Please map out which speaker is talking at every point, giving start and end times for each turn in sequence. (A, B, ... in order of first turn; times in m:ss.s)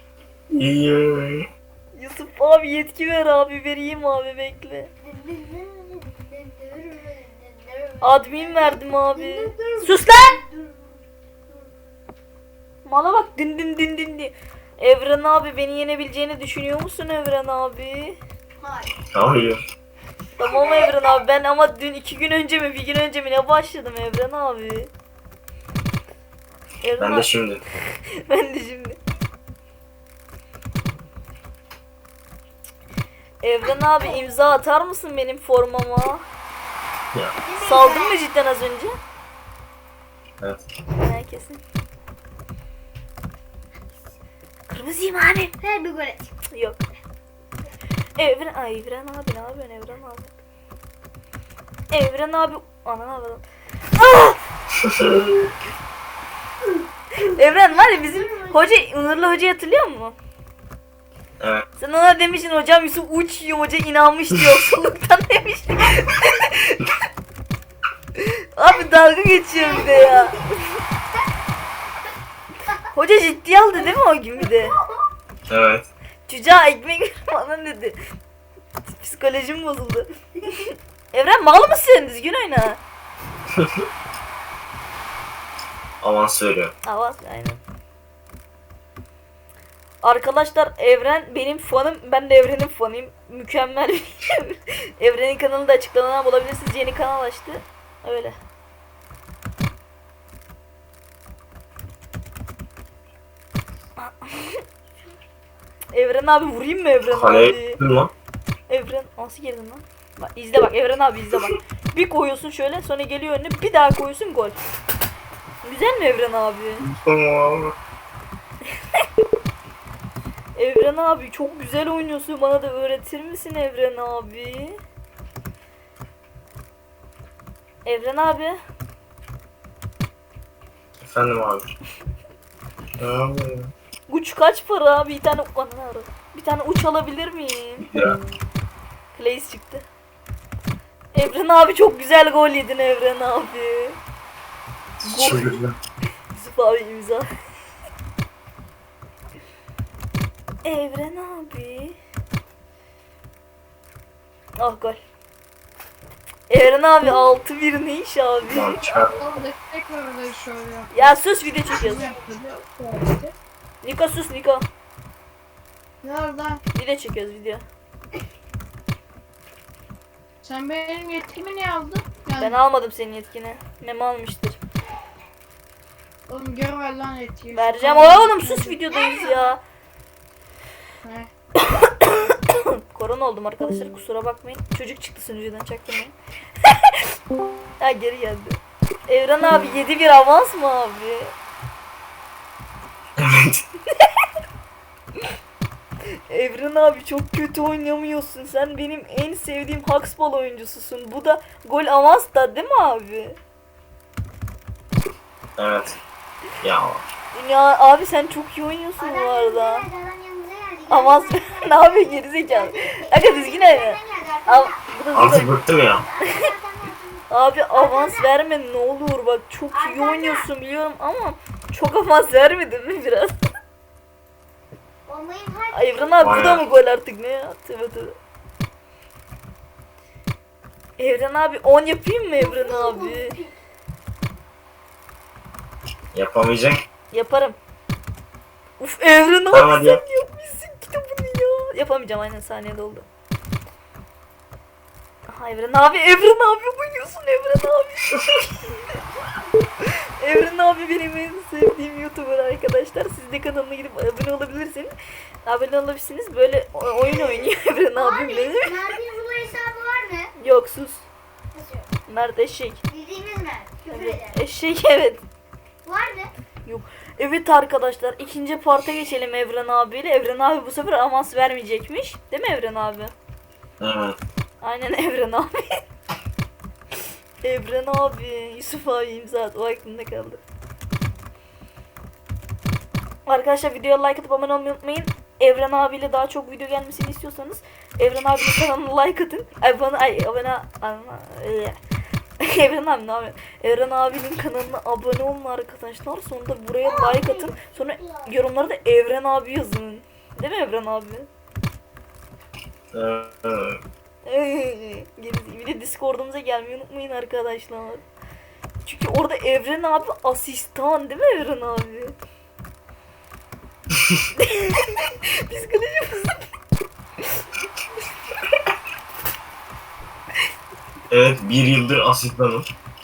0:00.5-0:01.4 A
0:01.9-0:04.9 B
0:05.0-0:11.0 C
0:08.0-0:10.4 B
0:12.8-0:18.2 B
0:18.6-0:18.9 C
0:19.1-0:19.7 A
0:20.4-0:24.9 B
0:20.4-0:21.2 C
0:26.8-0:27.3 B
0:27.0-0:27.6 A
0:28.2-0:29.0 B
0:33.4-0:36.2 B
0:37.4-0:38.2 C
0:37.6-0:38.9 B
0:41.0-0:41.6 B
0:44.7-0:45.5 B
0:45.6-0:46.3 C
0:46.5-0:46.8 B
0:48.2-0:50.3 B
0:51.9-0:53.4 B
0:54.0-0:54.4 B
0:54.8-0:55.3 A
0:57.2-1:00.2 B
0:57.4-0:58.9 C
1:01.4-1:01.6 A
1:01.8-1:06.9 B
1:08.2-1:10.5 B
1:09.6-1:10.6 C
1:12.9-1:14.8 B
1:15.5-1:15.9 A
1:16.3-1:18.0 B
1:18.8-1:20.1 B
1:20.6-1:22.8 B
1:23.6-1:23.8 A
1:26.0-1:26.7 A
1:26.8-1:27.6 B
1:30.0-1:38.4 B
1:44.0-1:44.6 B
1:45.9-1:47.8 B
1:47.1-1:48.1 A
1:48.7-1:54.6 B
1:55.6-1:56.9 B
1:56.8-1:57.8 A
2:00.6-2:04.8 B
2:07.8-2:08.6 B
2:11.0-2:11.7 A
2:13.0-2:13.7 A
2:14.1-2:17.9 B
2:17.8-2:18.2 A
2:19.1-2:19.8 B
2:21.1-2:24.0 B
2:25.0-2:25.8 A
2:25.1-2:25.6 B
2:26.3-2:27.3 B
2:30.6-2:32.0 B
2:34.6-2:35.0 B
2:36.5-2:38.8 B
2:38.5-2:39.2 A
2:38.8-2:41.1 D
2:40.9-2:42.1 B
2:41.6-2:42.3 C
2:41.7-2:43.3 D
2:43.8-2:44.6 B
2:46.0-2:46.6 D
2:46.7-2:47.6 B
2:50.4-2:52.6 D
2:52.4-2:54.6 B
2:56.3-2:58.8 D
2:57.5-2:59.6 B
2:58.9-2:59.6 C
3:01.0-3:01.3 D
3:01.6-3:06.1 B
3:06.7-3:07.0 B
3:07.8-3:11.3 B
3:13.2-3:13.6 A
3:16.3-3:23.4 B
3:25.6-3:26.0 A
3:26.6-3:27.0 A
3:27.3-3:29.9 B
3:29.0-3:34.8 C
3:30.9-3:35.5 B
3:35.1-3:36.1 A
3:35.8-3:38.3 C
3:37.3-3:43.4 B
3:39.7-3:40.5 C
3:45.1-3:46.3 C
3:45.7-3:48.2 B
3:46.2-3:46.6 A
3:51.0-3:53.3 B
3:52.4-3:53.6 C
3:56.1-3:56.8 A
3:57.1-3:57.6 B
3:58.8-4:03.1 B
3:59.5-4:00.0 A
4:05.3-4:08.8 B
4:09.8-4:14.9 B
4:15.4-4:19.0 B
4:18.0-4:20.3 C
4:20.4-4:21.1 B
4:21.5-4:21.9 C
4:22.1-4:22.8 B
4:22.9-4:24.4 C
4:23.9-4:25.2 B
4:25.8-4:26.3 C
4:26.7-4:33.1 B
4:33.8-4:34.2 A
4:34.6-4:35.6 B
4:37.4-4:40.4 B
4:43.3-4:51.8 B
4:52.4-5:01.3 B
4:56.8-4:58.3 C
5:02.9-5:03.8 A
5:04.2-5:08.0 B
5:08.8-5:12.2 B
5:14.4-5:16.4 B
5:21.1-5:22.7 A